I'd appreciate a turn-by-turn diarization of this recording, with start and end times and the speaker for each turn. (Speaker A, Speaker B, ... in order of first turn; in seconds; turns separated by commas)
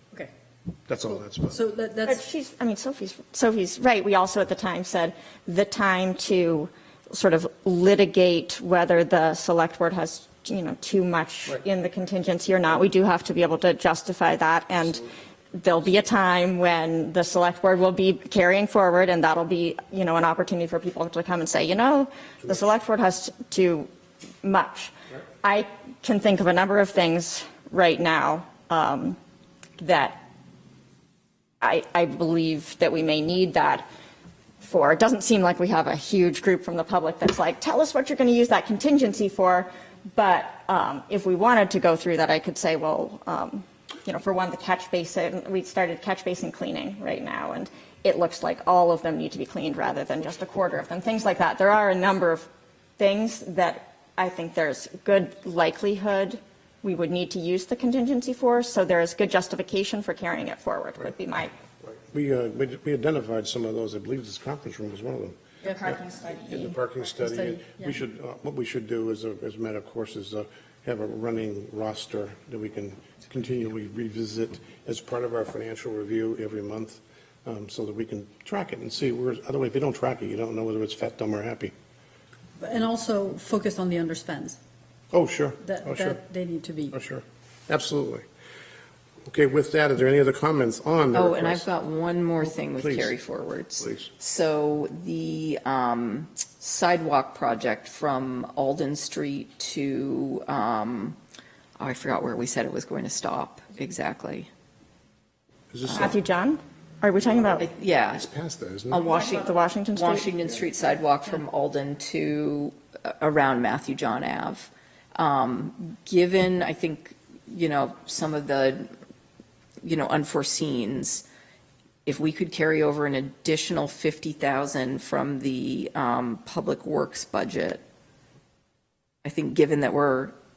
Speaker A: 0.9-1.6, Speaker B: 1.5-2.2, Speaker C: 2.0-23.9, Speaker C: 24.4-29.2, Speaker C: 29.8-30.2, Speaker C: 31.6-33.9, Speaker C: 34.6-52.5, Speaker C: 53.0-61.5, Speaker A: 61.8-81.7, Speaker B: 65.6-65.9, Speaker C: 65.7-66.8, Speaker B: 67.2-68.0, Speaker B: 82.6-84.6, Speaker A: 85.1-86.2, Speaker B: 85.6-87.0, Speaker A: 86.9-88.2, Speaker A: 89.2-91.7, Speaker D: 91.1-101.2, Speaker A: 92.4-93.2, Speaker A: 93.8-94.1, Speaker D: 101.8-104.5, Speaker A: 105.7-106.2, Speaker C: 105.9-107.7, Speaker D: 107.6-108.3, Speaker A: 108.2-109.0, Speaker D: 108.9-118.9, Speaker C: 109.0-110.3, Speaker D: 119.8-121.2, Speaker D: 122.0-127.8, Speaker D: 129.2-130.3